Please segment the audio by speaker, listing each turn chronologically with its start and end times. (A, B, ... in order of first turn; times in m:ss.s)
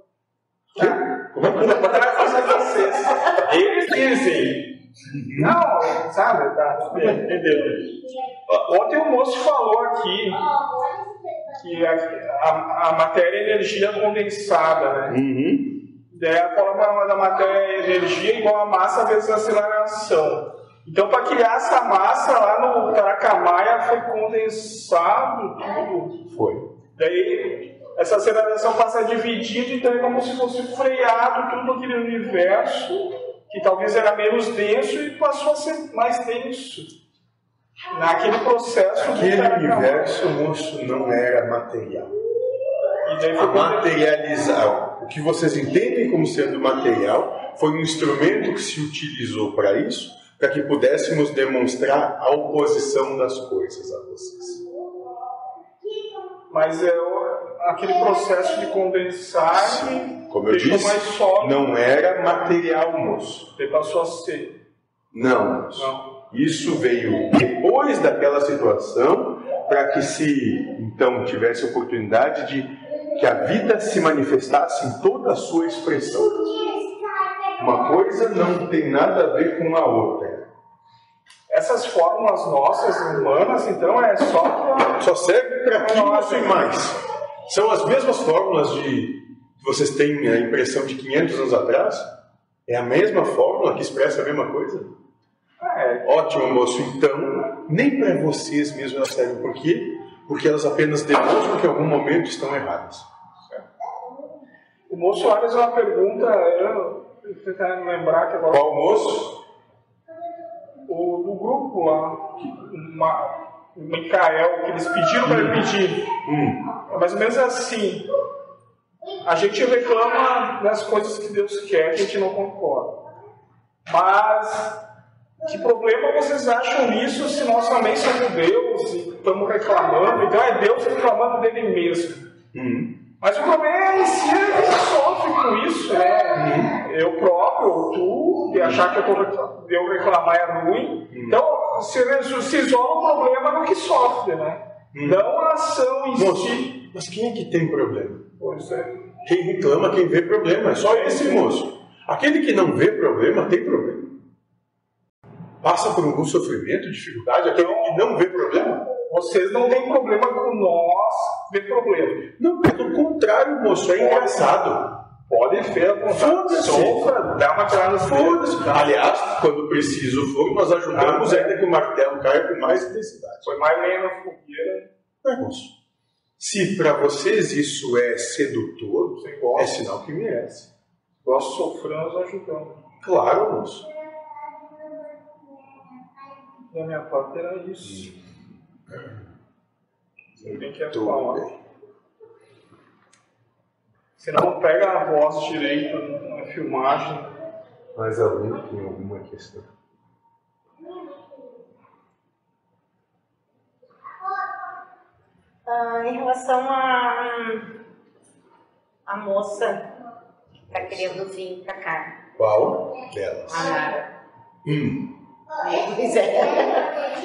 0:00.7-0:03.3 A
0:00.7-0:04.7 B
0:05.1-0:05.6 A
0:05.3-0:07.9 B
0:08.5-0:10.5 B
0:11.6-0:15.2 B
0:15.1-0:15.8 A
0:16.1-0:26.2 B
0:26.3-0:26.7 A
0:27.0-0:36.9 B
0:37.9-0:40.4 B
0:39.0-0:42.2 A
0:43.0-0:43.9 B
0:43.4-0:54.6 A
0:56.5-1:01.7 B
0:59.5-1:03.5 A
1:03.6-1:04.6 B
1:05.1-1:16.8 A
1:05.7-1:06.1 B
1:17.6-1:20.5 A
1:21.5-1:25.0 B
1:25.0-1:32.1 A
1:25.7-1:26.7 B
1:32.6-1:34.9 A
1:35.6-1:36.1 B
1:36.0-1:43.1 A
1:44.9-1:48.8 B
1:48.5-1:49.4 A
1:50.9-1:56.1 B
1:55.2-1:55.6 A
1:56.2-1:56.6 A
1:56.9-1:58.0 B
1:59.2-2:03.0 B
2:03.9-2:04.8 B
2:05.4-2:12.3 B
2:12.5-2:13.0 A
2:13.2-2:26.7 B
2:16.3-2:16.7 A
2:21.1-2:21.4 A
2:24.9-2:25.2 A
2:26.1-2:28.2 A
2:28.4-2:28.9 B
2:29.2-2:34.2 A
2:30.8-2:31.5 B
2:35.6-2:38.9 A
2:37.5-2:38.0 B
2:39.1-2:42.3 B
2:42.4-2:45.0 A
2:43.9-2:44.6 B
2:45.3-2:48.4 B
2:46.1-2:47.1 A
2:48.0-2:53.5 A
2:50.9-2:51.6 B
2:53.4-2:54.9 B
2:55.2-2:55.7 A
2:56.4-3:00.7 A
2:59.2-2:59.8 B
3:01.2-3:02.8 B
3:03.0-3:03.9 A
3:06.7-3:08.1 B
3:07.8-3:08.2 A
3:08.9-3:09.2 A
3:10.4-3:11.6 A
3:10.4-3:11.4 B
3:14.2-3:17.3 B
3:17.9-3:19.7 A
3:25.6-3:27.7 C
3:29.0-3:29.9 C
3:30.7-3:31.2 A
3:30.7-3:32.2 C
3:32.4-3:33.8 A
3:33.5-3:34.1 C
3:34.6-3:35.1 A
3:35.6-3:37.0 C